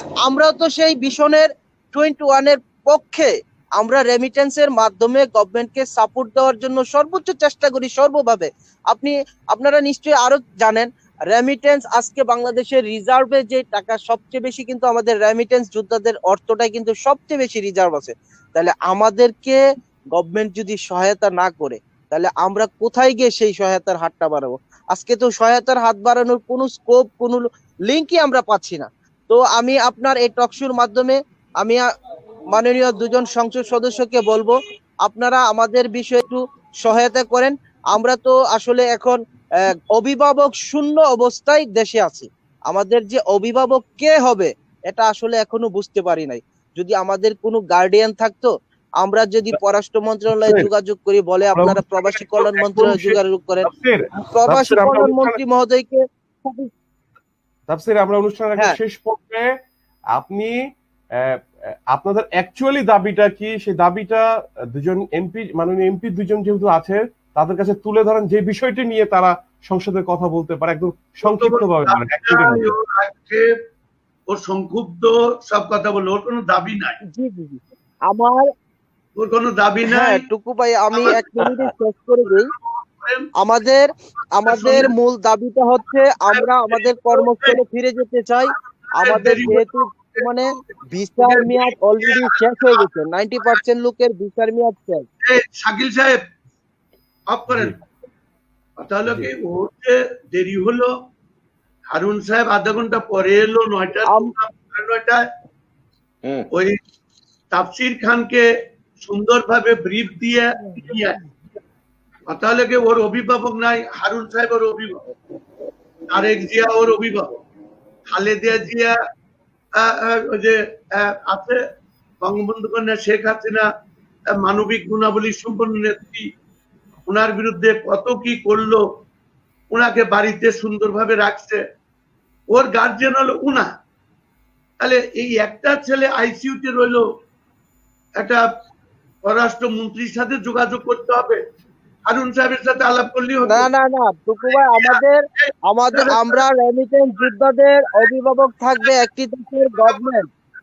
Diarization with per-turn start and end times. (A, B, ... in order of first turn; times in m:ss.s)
0:00.2-0:19.6 A
0:20.1-0:31.8 A
0:32.5-0:48.5 A
0:49.0-0:53.7 A
0:50.3-0:50.7 B
0:51.5-0:55.4 B
0:54.3-0:56.7 A
0:57.7-0:59.5 B
1:00.1-1:00.6 B
1:01.2-1:12.7 B
1:11.2-1:13.5 C
1:14.3-1:17.0 C
1:17.1-1:18.5 A
1:19.2-1:20.2 C
1:19.9-1:22.5 A
1:20.9-1:21.2 C
1:22.2-1:23.3 C
1:23.4-1:35.0 A
1:24.4-1:24.9 C
1:26.2-1:27.6 C
1:29.0-1:33.6 C
1:35.2-1:36.2 C
1:37.3-1:37.7 C
1:37.5-1:37.7 B
1:38.8-1:40.9 C
1:41.9-1:45.2 C
1:46.5-1:46.8 C
1:47.5-1:48.4 C
1:49.0-1:51.2 C
1:50.7-1:50.9 A
1:52.3-1:55.0 C
1:56.1-1:57.4 C
1:58.1-1:59.0 C
1:59.8-2:01.6 C
2:02.2-2:03.6 C
2:04.4-2:06.2 C
2:07.0-2:08.8 C
2:09.7-2:11.6 C
2:12.5-2:13.7 C
2:14.8-2:17.0 C
2:19.2-2:21.4 C
2:22.1-2:23.7 C
2:23.5-2:30.2 A
2:24.4-2:26.4 C
2:29.7-2:30.2 C